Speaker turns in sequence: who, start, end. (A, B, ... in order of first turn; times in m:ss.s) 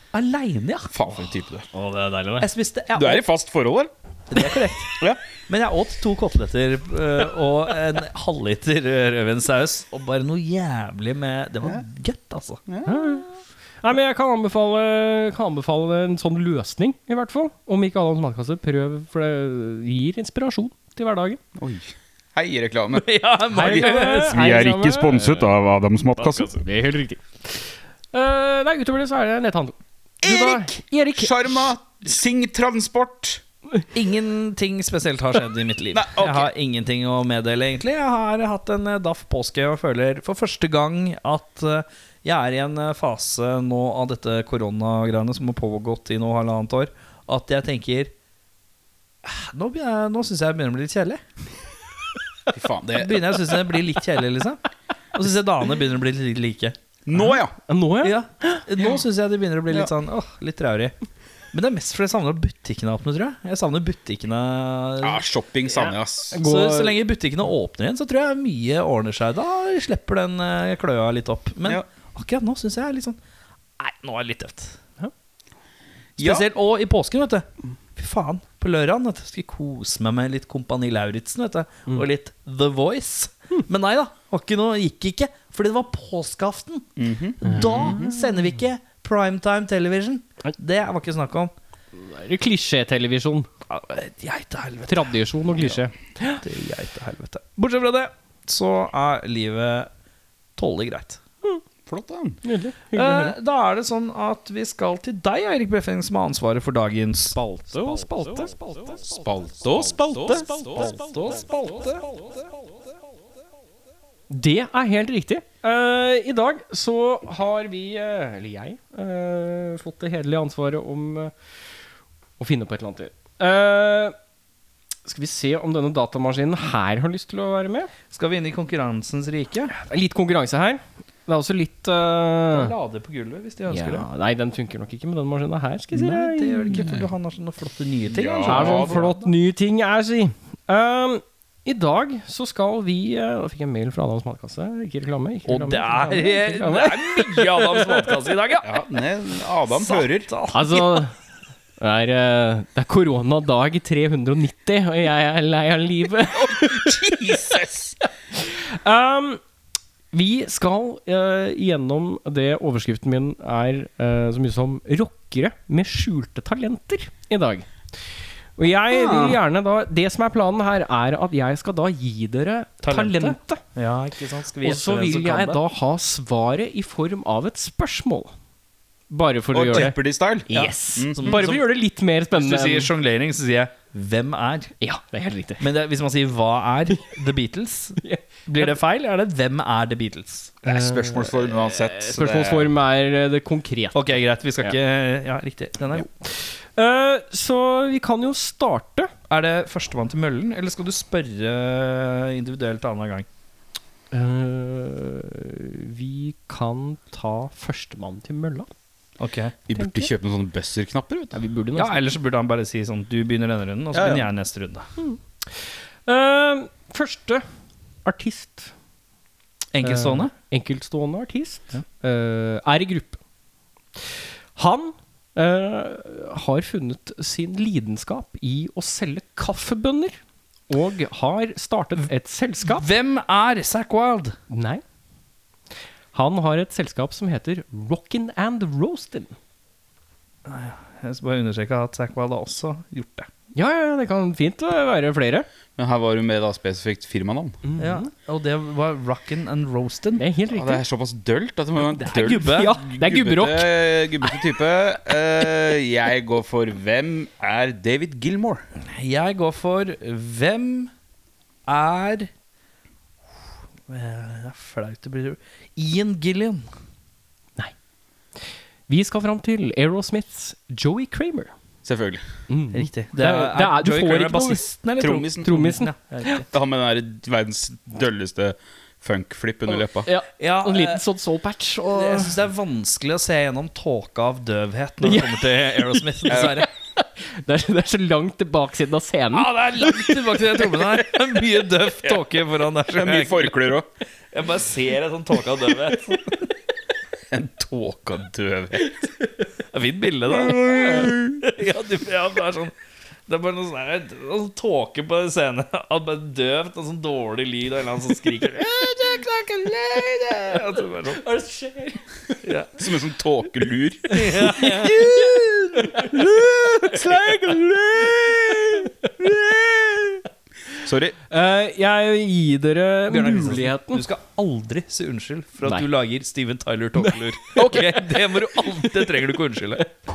0:00.1-0:00.9 A
0:00.9-0:01.7 B
0:01.7-0:02.5 C
0:02.4-0:03.2 A
0:02.9-0:03.9 B
0:04.3-0:12.6 A
0:12.7-0:13.2 B
0:12.8-0:13.3 C
0:13.8-0:21.4 C
0:21.6-0:26.5 B
0:22.9-0:24.5 A
0:23.5-0:25.5 C
0:26.3-0:31.7 C
0:30.2-0:33.4 B
0:33.9-0:48.1 A
0:35.9-0:36.5 B
0:49.2-0:51.2 A
0:52.5-0:53.5 B
0:52.9-0:54.6 A
0:55.1-0:57.4 A
0:57.1-0:57.5 B
0:57.7-0:58.6 C
0:58.0-1:00.9 A
0:58.8-0:59.0 B
1:01.5-1:05.2 A
1:05.0-1:06.4 B
1:06.3-1:07.0 C
1:06.3-1:13.2 A
1:13.8-1:14.8 A
1:16.2-1:16.5 B
1:16.2-1:31.5 A
1:27.0-1:28.0 B
1:27.5-1:28.1 C
1:31.9-1:33.5 C
1:33.7-1:35.7 A
1:34.9-1:36.4 C
1:36.4-1:39.9 A
1:40.6-1:41.2 A
1:41.8-1:42.4 B
1:42.4-1:43.4 C
1:42.9-1:47.4 A
1:47.3-1:48.8 C
1:49.1-1:50.9 B
1:49.8-1:51.3 C
1:50.7-1:52.4 A
1:54.3-2:01.3 C
2:02.4-2:04.1 C
2:05.0-2:07.9 C
2:08.1-2:09.7 A
2:09.7-2:12.7 C
2:12.5-2:14.1 A
2:13.7-2:16.9 C
2:15.9-2:19.3 A
2:16.8-2:17.1 B
2:18.1-2:19.0 B
2:18.4-2:28.1 C
2:25.4-2:28.8 A
2:28.6-2:30.3 B
2:29.7-2:31.0 A
2:30.5-2:31.1 C
2:31.8-2:37.5 C
2:36.3-2:38.0 B
2:38.0-2:39.4 C
2:40.1-2:47.7 C
2:48.6-2:53.6 C
2:48.9-2:49.4 B
2:52.8-2:55.6 A
2:54.6-2:58.3 C
2:59.1-3:00.0 C
2:59.5-3:01.5 B
3:00.5-3:02.9 C
3:00.5-3:01.6 A
3:02.3-3:04.7 A
3:04.8-3:05.6 C
3:05.6-3:10.6 A
3:08.0-3:08.7 C
3:10.6-3:14.8 C
3:10.6-3:12.7 B
3:13.9-3:16.1 A
3:15.9-3:19.1 C
3:19.3-3:23.2 A
3:24.1-3:28.7 C
3:29.2-3:29.5 A
3:29.7-3:31.4 B
3:29.7-3:30.1 C
3:31.3-3:32.0 C
3:31.8-3:34.9 A
3:33.9-3:34.3 B
3:35.0-3:37.4 C
3:38.0-3:38.7 C
3:39.7-3:40.3 A
3:39.8-3:43.2 C
3:44.0-3:50.2 C
3:50.7-3:52.9 C
3:52.6-3:54.4 A
3:54.5-3:54.8 C
3:56.1-3:59.4 C
4:00.4-4:03.3 A
4:03.5-4:05.5 C
4:05.8-4:07.6 B
4:07.6-4:08.1 C
4:07.8-4:10.2 A
4:10.2-4:10.8 C
4:10.5-4:18.6 B
4:12.0-4:13.8 C
4:12.0-4:12.8 A
4:18.9-4:20.9 A
4:21.7-4:22.3 A
4:23.9-4:26.6 A
4:28.9-4:31.5 C
4:31.8-4:32.2 B
4:32.5-4:34.6 C
4:32.7-4:36.5 A
4:35.0-4:35.5 B
4:35.4-4:36.4 C
4:36.5-4:40.1 B
4:39.7-4:42.4 C
4:40.4-4:41.0 A
4:41.9-4:46.7 A
4:45.0-4:50.7 C
4:46.3-4:46.6 B
4:49.3-4:53.6 A
4:52.9-4:53.9 B
4:54.3-4:56.5 A
4:57.3-4:59.0 B
4:59.7-5:02.7 A
5:00.3-5:01.4 B
5:00.7-5:01.0 C
5:03.3-5:11.2 A
5:11.1-5:12.4 C
5:12.4-5:12.7 A
5:12.8-5:20.1 B
5:14.1-5:15.1 A
5:14.2-5:16.2 C
5:18.6-5:18.9 C
5:20.8-5:21.2 B
5:21.3-5:24.0 C
5:23.1-5:29.8 A
5:27.6-5:27.9 B